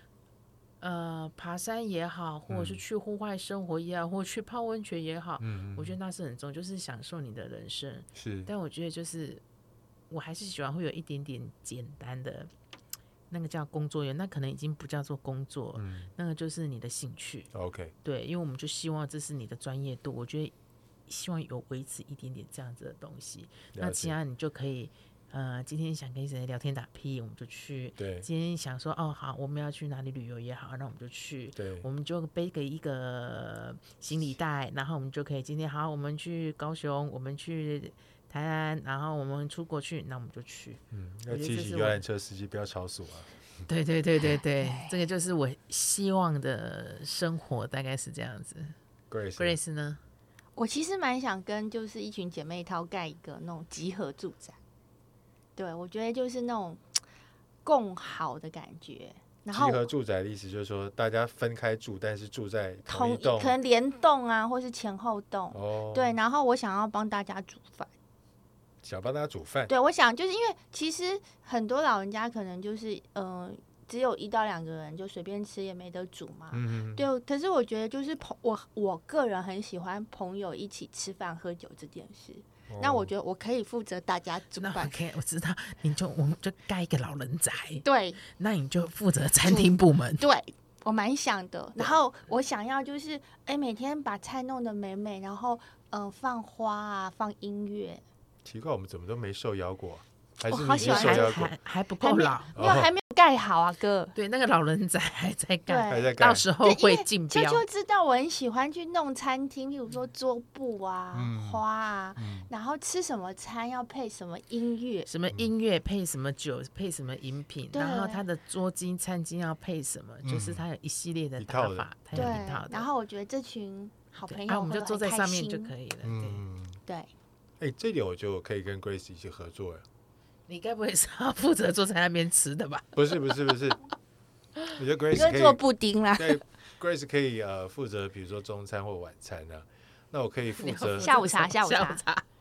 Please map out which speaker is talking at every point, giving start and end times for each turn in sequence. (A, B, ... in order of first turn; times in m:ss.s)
0:00.8-0:09.4 A
0:02.5-0:02.8 B
0:05.4-0:06.0 B
0:08.1-0:08.5 B
0:10.1-0:12.5 A
0:13.3-0:17.5 A
0:15.7-0:16.1 B
0:17.5-0:17.9 B
0:18.0-0:20.5 A
0:21.1-0:42.0 A
0:23.7-0:24.2 B
0:28.0-0:28.3 B
0:31.6-0:31.8 B
0:40.9-0:43.3 B
0:43.6-0:48.7 A
0:44.6-0:45.0 C
0:49.1-0:49.6 B
0:49.4-0:50.0 A
0:50.6-0:54.6 C
0:55.6-0:56.8 C
0:57.6-0:59.8 C
0:59.5-1:03.6 B
1:02.9-1:07.9 C
1:05.5-1:06.2 B
1:08.8-1:09.7 B
1:09.7-1:25.0 C
1:16.5-1:17.1 B
1:22.7-1:23.1 B
1:24.6-1:30.2 A
1:27.8-1:28.2 C
1:29.4-1:38.0 C
1:38.4-1:41.5 B
1:40.5-1:41.4 C
1:40.8-1:42.6 A
1:42.0-1:44.1 C
1:42.6-1:42.9 B
1:44.1-1:47.6 A
1:45.7-1:55.1 C
1:45.9-1:46.5 B
1:51.1-1:51.6 B
1:52.2-1:52.5 B
1:55.1-2:02.9 A
1:57.7-1:58.2 C
2:00.2-2:00.6 B
2:01.4-2:02.4 B
2:02.1-2:05.7 C
2:04.3-2:06.4 A
2:06.0-2:06.8 B
2:07.6-2:09.8 B
2:10.5-2:12.9 A
2:12.9-2:13.8 B
2:14.7-2:15.6 B
2:15.1-2:16.4 C
2:16.2-2:21.2 B
2:20.6-2:22.2 A
2:20.9-2:22.0 C